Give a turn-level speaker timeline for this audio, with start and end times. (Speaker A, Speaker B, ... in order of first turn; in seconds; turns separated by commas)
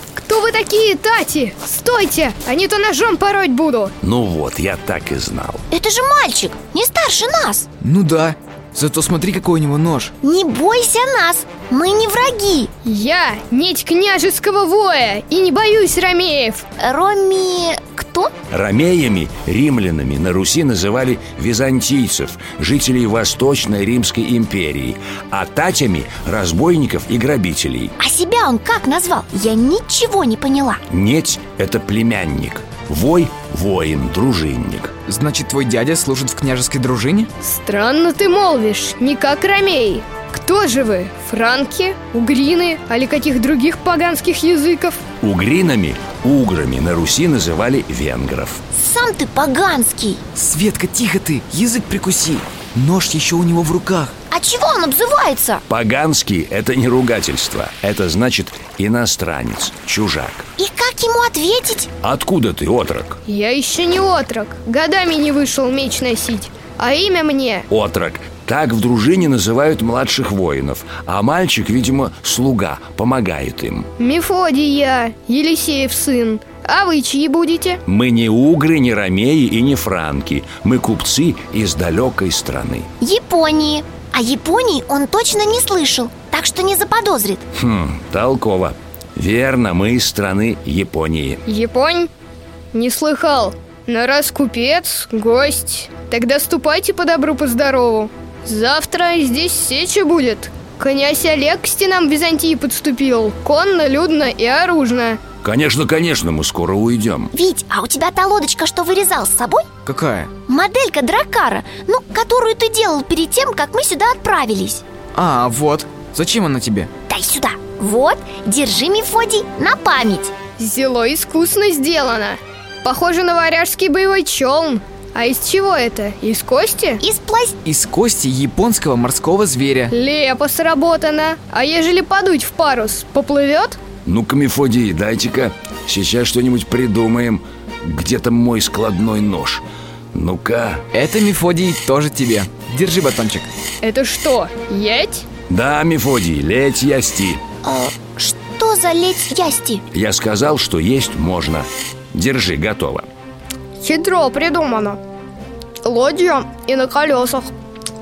Speaker A: 0.2-3.9, Speaker B: 4.0-5.6, Speaker C: 5.7-7.7, Speaker D: 7.8-10.1, Speaker C: 10.2-12.7, Speaker A: 12.8-16.6, Speaker C: 16.8-18.3, Speaker B: 18.5-27.9, Speaker C: 28.0-30.8, Speaker B: 30.9-34.9, Speaker D: 35.1-37.3, Speaker A: 37.4-45.0, Speaker B: 45.2-48.6, Speaker C: 48.8-50.2, Speaker D: 50.4-54.1, Speaker C: 54.3-55.6, Speaker B: 55.7-60.5, Speaker C: 60.6-61.9, Speaker B: 62.0-63.2, Speaker A: 63.3-67.7, Speaker B: 67.7-73.9, Speaker A: 74.0-77.8, Speaker B: 77.9-82.9, Speaker C: 83.0-87.4, Speaker B: 87.5-91.4, Speaker A: 91.5-92.1, Speaker A: 92.7-105.2, Speaker B: 105.4-107.3, Speaker C: 107.3-109.7, Speaker D: 109.9-110.3, Speaker C: 110.5-114.8, Speaker D: 115.2-116.9, Speaker C: 117.1-120.3, Speaker A: 120.6-127.0, Speaker C: 127.0-127.6, Speaker D: 127.6-129.9, Speaker A: 129.9-133.8, Speaker B: 134.1-140.8, Speaker D: 140.9-143.5, Speaker A: 143.8-145.2, Speaker B: 145.5-147.4, Speaker C: 147.6-149.8, Speaker B: 149.9-153.1, Speaker A: 153.8-155.0, Speaker A: 155.8-157.5